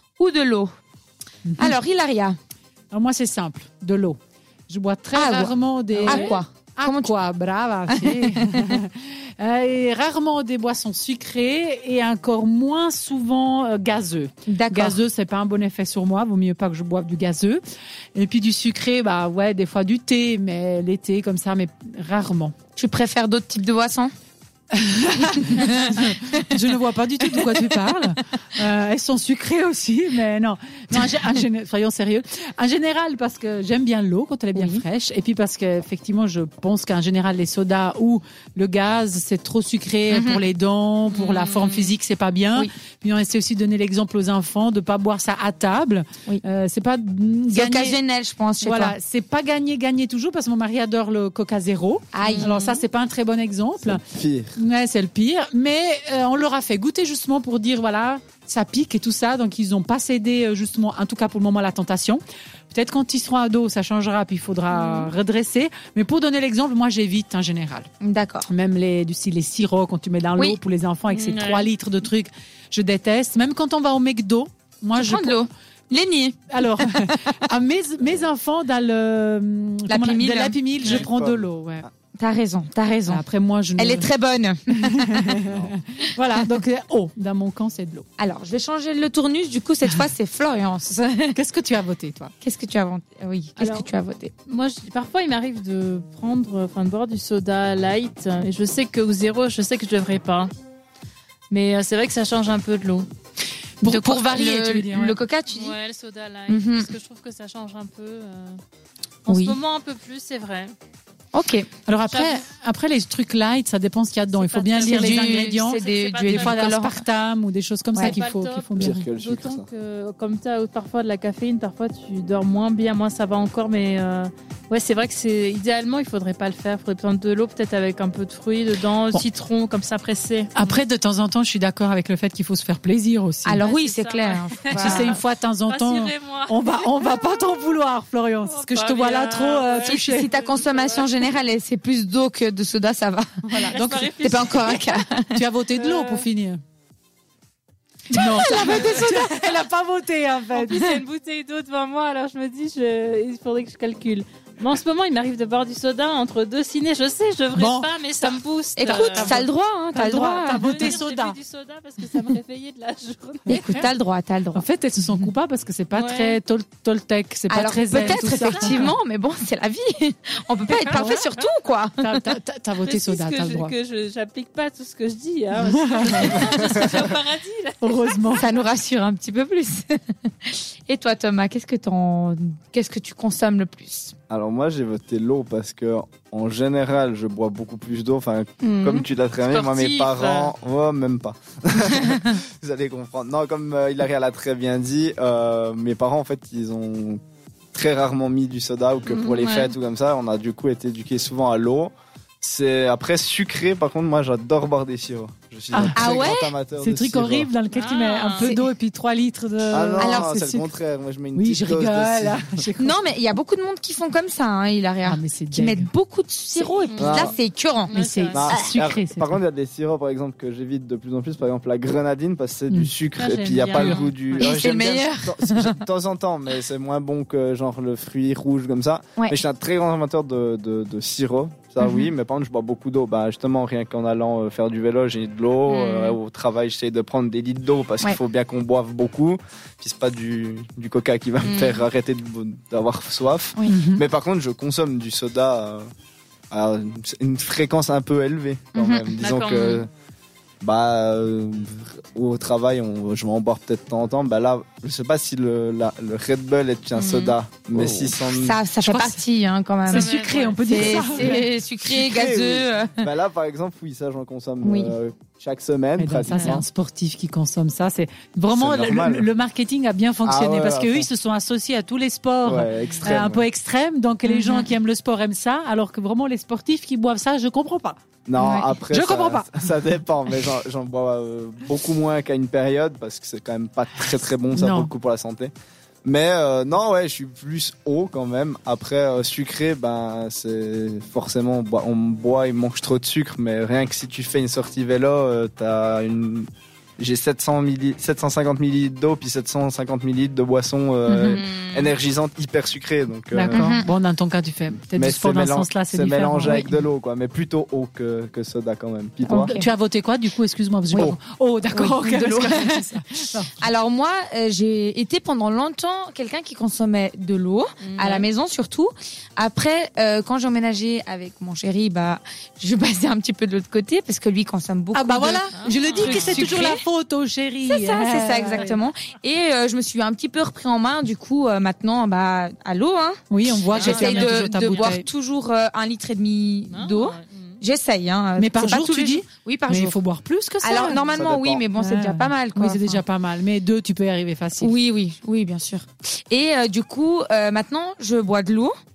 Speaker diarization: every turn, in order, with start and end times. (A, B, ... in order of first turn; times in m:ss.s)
0:00.2-0:00.7 A
0:01.4-0:01.8 B
0:01.6-0:02.4 A
0:02.9-0:17.6 B
0:05.1-0:07.1 A
0:06.0-0:06.4 C
0:07.9-0:08.8 A
0:14.5-0:15.0 A
0:18.1-0:22.5 B
0:22.8-0:24.1 A
0:24.7-0:48.0 B
0:25.2-0:26.5 A
0:27.3-0:28.0 A
0:34.5-0:34.8 A
0:40.1-0:40.4 A
0:41.1-0:42.0 C
0:47.5-0:49.0 A
0:48.6-0:54.0 B
0:52.1-0:52.8 A
0:52.2-0:52.5 C
0:53.8-0:54.6 D
0:54.6-1:07.9 B
1:04.7-1:05.1 A
1:08.0-1:08.5 A
1:08.5-1:15.5 B
1:11.1-1:11.7 C
1:14.9-1:17.2 A
1:16.5-1:21.9 B
1:19.9-1:20.6 A
1:20.8-1:21.5 D
1:22.2-1:23.2 A
1:23.1-1:24.1 B
1:23.8-1:25.5 A
1:24.7-1:28.0 B
1:28.2-1:31.4 A
1:31.3-1:32.3 B
1:32.4-1:34.3 A
1:33.6-1:33.9 C
1:34.5-1:40.5 C
1:41.5-1:43.1 C
1:43.8-1:45.2 B
1:43.8-1:45.8 A
1:45.5-1:48.6 C
1:46.5-1:46.9 A
1:49.2-1:50.7 C
1:49.3-1:49.6 A
1:51.3-1:51.7 A
1:51.9-1:59.1 B
1:52.1-1:52.4 C
1:54.3-1:56.7 C
1:54.8-1:57.0 A
1:58.0-2:10.8 C
1:58.8-1:59.7 D
2:10.5-2:13.6 B
2:13.4-2:15.2 A
2:13.6-2:17.6 C
2:14.8-2:20.3 B
2:18.4-2:21.4 C
2:19.8-2:25.4 A
2:23.4-2:26.6 B
2:23.7-2:24.9 C
2:25.8-2:26.3 C
2:28.1-2:29.6 A
2:28.1-2:30.9 B
2:30.6-2:39.4 C
2:37.5-2:38.3 B
2:38.8-2:40.9 A
2:38.8-2:41.4 B
2:40.4-2:43.8 C
2:43.5-2:43.9 B
2:43.5-2:44.6 A
2:44.5-2:48.9 B
2:45.9-2:46.4 C
2:47.5-2:52.3 A
2:47.9-2:48.9 C
2:50.7-2:51.2 C
2:50.9-2:51.3 B
2:52.0-2:53.7 B
2:52.8-2:58.6 C
2:55.8-2:56.5 B
2:57.8-2:58.5 B
2:58.4-3:04.1 A
3:04.3-3:17.2 D
3:08.7-3:10.5 C
3:17.7-3:27.5 D
3:19.0-3:19.7 C
3:25.7-3:26.2 B
3:26.0-3:26.5 A
3:26.8-3:30.7 B
3:27.7-3:28.6 C
3:28.4-3:28.7 A
3:29.7-3:32.5 D
3:30.0-3:30.3 A
3:31.3-3:33.0 B
3:32.8-3:37.9 A
3:35.0-3:35.9 B
3:36.6-3:37.3 C
3:37.0-3:37.3 D
3:37.9-3:38.5 C
3:37.9-3:39.4 B
3:38.3-4:05.8 D
3:43.2-3:44.1 C
3:43.7-3:44.4 B
3:44.4-3:45.8 A
3:51.8-3:52.1 A
3:55.7-3:56.2 A
4:01.4-4:01.8 A
4:03.7-4:04.0 B
4:06.5-4:09.9 D
4:08.7-4:09.0 A
4:09.2-4:09.9 C
4:10.6-4:18.6 D
4:17.0-4:17.4 C
4:18.3-4:20.1 A
4:18.8-4:19.2 B
4:19.9-4:21.5 B
4:19.9-4:21.4 C
4:20.6-4:23.1 A
4:21.9-4:26.6 D
4:24.6-4:24.9 A
4:26.0-4:38.0 B
4:28.5-4:29.3 D
4:30.2-4:31.1 D
4:32.4-4:33.4 D
4:34.2-4:34.7 A
4:38.2-4:45.5 D
4:38.4-4:38.8 A
4:38.9-4:39.7 B
4:44.5-4:44.9 B
4:46.0-5:03.7 D
5:01.1-5:01.4 B
5:01.4-5:01.9 C
5:03.3-5:06.8 B
5:03.5-5:03.9 A
5:04.9-5:09.5 D
5:09.2-5:09.7 A
5:09.4-5:13.7 B
5:11.7-5:12.8 A
5:13.6-5:26.8 A
5:17.8-5:18.3 C
5:24.9-5:28.8 B
5:25.5-5:26.6 C
5:27.6-5:40.0 A
5:28.5-5:28.8 C
5:33.3-5:35.0 B
5:33.7-5:35.0 C
5:36.7-5:37.6 C
5:38.4-5:41.2 B
5:40.6-5:43.0 A
5:41.1-5:41.6 D
5:41.7-5:44.7 B
5:44.6-5:48.7 A